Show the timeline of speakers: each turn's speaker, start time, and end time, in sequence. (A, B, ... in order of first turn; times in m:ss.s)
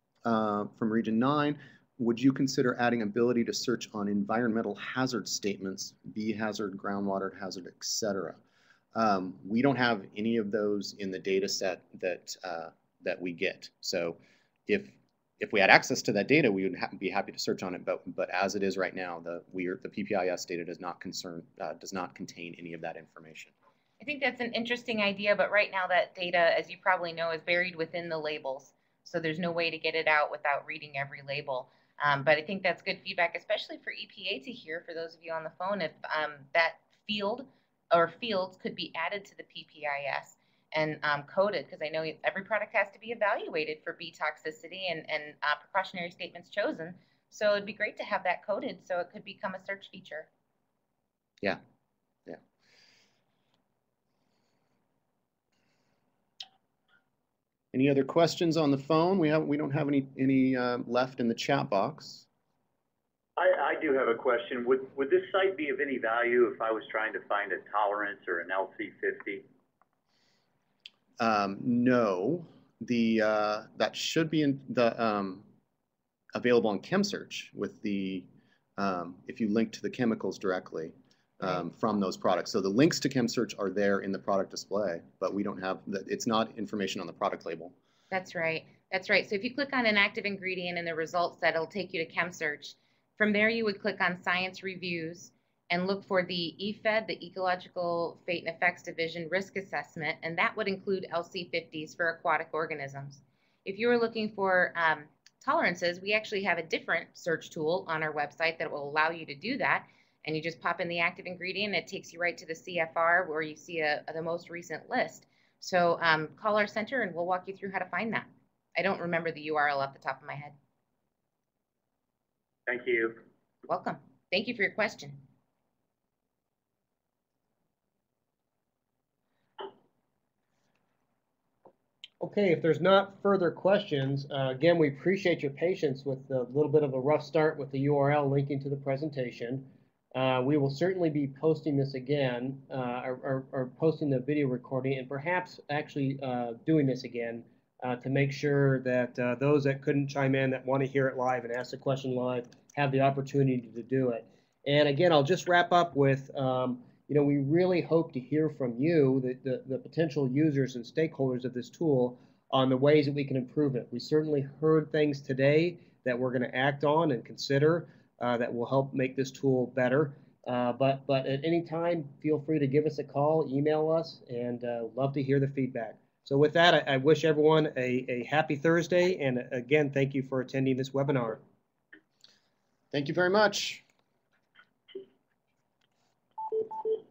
0:00.2-0:08.4 A
0:08.9-0:23.5 A
0:24.0-0:50.3 B
0:57.7-1:02.3 A
1:03.4-1:09.5 C
1:11.2-1:15.5 A
1:16.3-1:27.7 A
1:28.1-2:00.6 B
2:02.7-2:03.2 C
2:03.7-2:05.2 B
2:12.2-3:01.4 D
3:02.9-3:03.8 A